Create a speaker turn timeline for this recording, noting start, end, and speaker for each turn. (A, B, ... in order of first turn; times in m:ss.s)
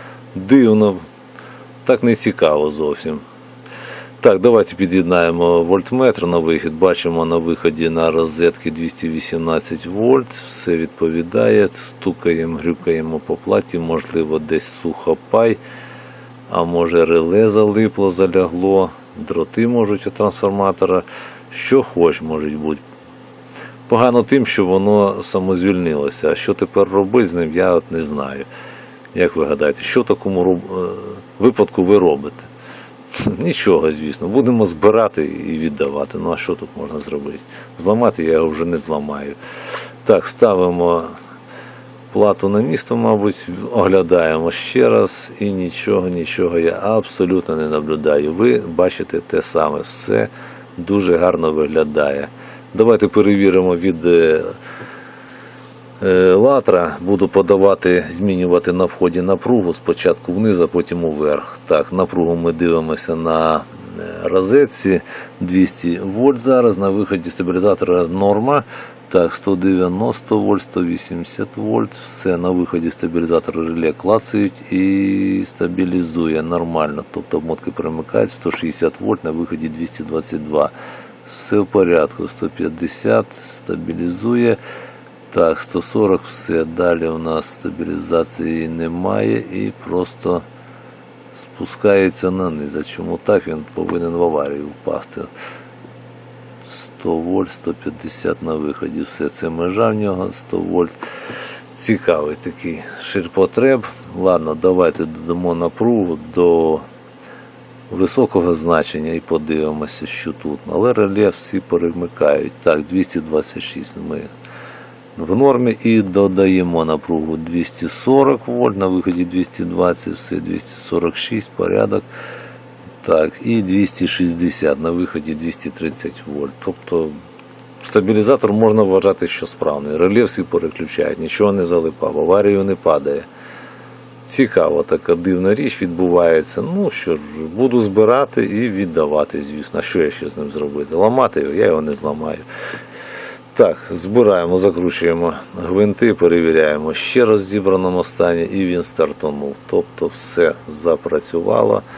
0:00.3-0:01.0 A
0:01.8-0:03.2 A
0:04.2-0:15.6 A
0:16.5-0:22.8 A
0:23.9-0:28.5 A
0:29.1-0:32.5 A
0:33.2-0:39.4 A
0:40.0-0:41.2 A
0:42.1-0:54.6 A
0:56.0-1:20.7 A
1:21.2-1:24.6 A
1:25.3-1:30.4 A
1:31.3-1:35.3 A
1:36.6-1:40.9 A
1:41.7-1:46.8 A
1:47.9-1:54.3 A
1:55.2-2:02.0 A
2:03.0-2:07.2 A
2:07.8-2:13.3 A
2:14.2-2:22.4 A
2:23.5-2:31.8 A